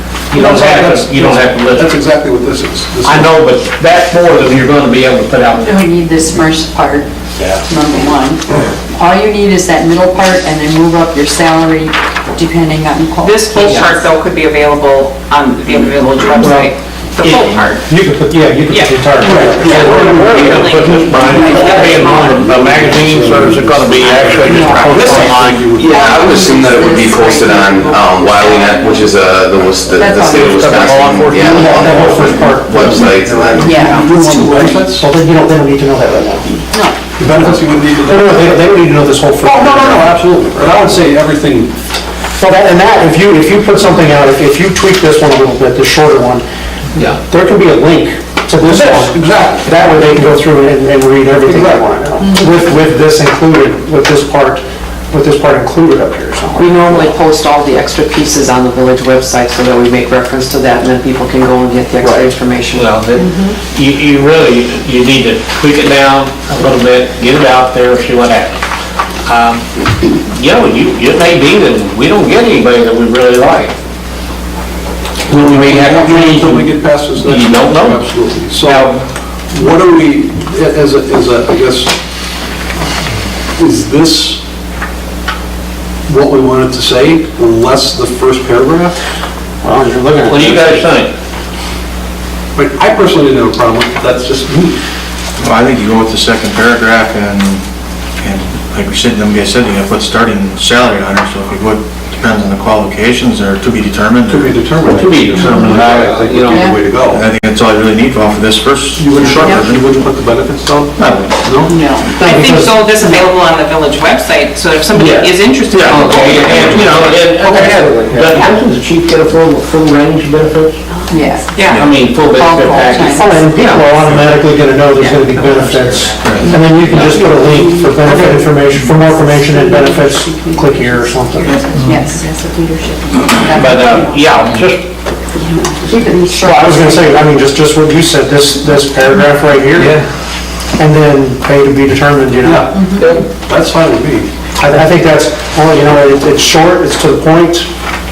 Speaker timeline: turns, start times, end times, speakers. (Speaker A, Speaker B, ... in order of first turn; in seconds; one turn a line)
Speaker A: 0.3-1.9
Speaker B: 0.3-3.3
Speaker A: 3.0-5.8
Speaker C: 5.5-14.0
Speaker D: 13.2-17.9
Speaker A: 13.6-14.0
Speaker E: 16.4-16.7
Speaker A: 17.2-17.5
Speaker E: 17.8-20.4
Speaker D: 18.7-22.2
Speaker B: 19.2-26.0
Speaker A: 19.2-25.7
Speaker C: 21.2-22.4
Speaker C: 24.4-29.2
Speaker F: 24.9-25.2
Speaker F: 25.7-33.8
Speaker C: 29.9-30.8
Speaker A: 30.2-32.1
Speaker E: 31.4-34.0
Speaker B: 32.7-33.1
Speaker C: 33.6-34.8
Speaker B: 33.6-35.1
Speaker D: 33.7-34.6
Speaker E: 34.9-36.6
Speaker C: 36.7-37.0
Speaker B: 37.1-38.6
Speaker E: 37.2-40.2
Speaker B: 39.4-41.7
Speaker E: 42.4-46.4
Speaker E: 47.3-57.1
Speaker B: 48.6-50.4
Speaker B: 51.4-51.9
Speaker G: 56.6-62.9
Speaker A: 62.7-68.6
Speaker A: 69.2-69.6
Speaker A: 70.3-73.7
Speaker A: 75.3-79.0
Speaker B: 75.3-78.9
Speaker B: 79.5-81.9
Speaker B: 83.5-84.4
Speaker B: 86.1-89.0
Speaker E: 89.6-90.7
Speaker A: 90.3-91.1
Speaker B: 92.5-94.8
Speaker H: 95.4-97.6
Speaker H: 98.2-104.7
Speaker B: 104.2-107.2
Speaker A: 104.9-106.7
Speaker C: 105.4-105.7
Speaker C: 106.5-106.8
Speaker H: 107.1-109.9
Speaker B: 108.9-111.8
Speaker H: 111.0-111.4
Speaker C: 111.7-112.1
Speaker E: 112.2-113.2
Speaker D: 112.2-117.2
Speaker A: 114.9-120.8
Speaker E: 117.4-118.4
Speaker D: 118.3-118.6
Speaker C: 121.1-121.6
Speaker D: 121.5-121.8
Speaker A: 121.7-124.1
Speaker C: 122.3-123.4
Speaker E: 122.9-131.6
Speaker D: 124.9-126.2
Speaker H: 126.2-126.5
Speaker C: 126.3-134.6
Speaker A: 126.8-127.4
Speaker A: 133.5-134.8
Speaker C: 135.3-137.3
Speaker E: 136.3-140.0
Speaker B: 139.8-140.0
Speaker E: 140.8-142.8
Speaker B: 142.4-144.9
Speaker C: 142.7-143.2
Speaker A: 143.0-143.2
Speaker E: 144.6-147.7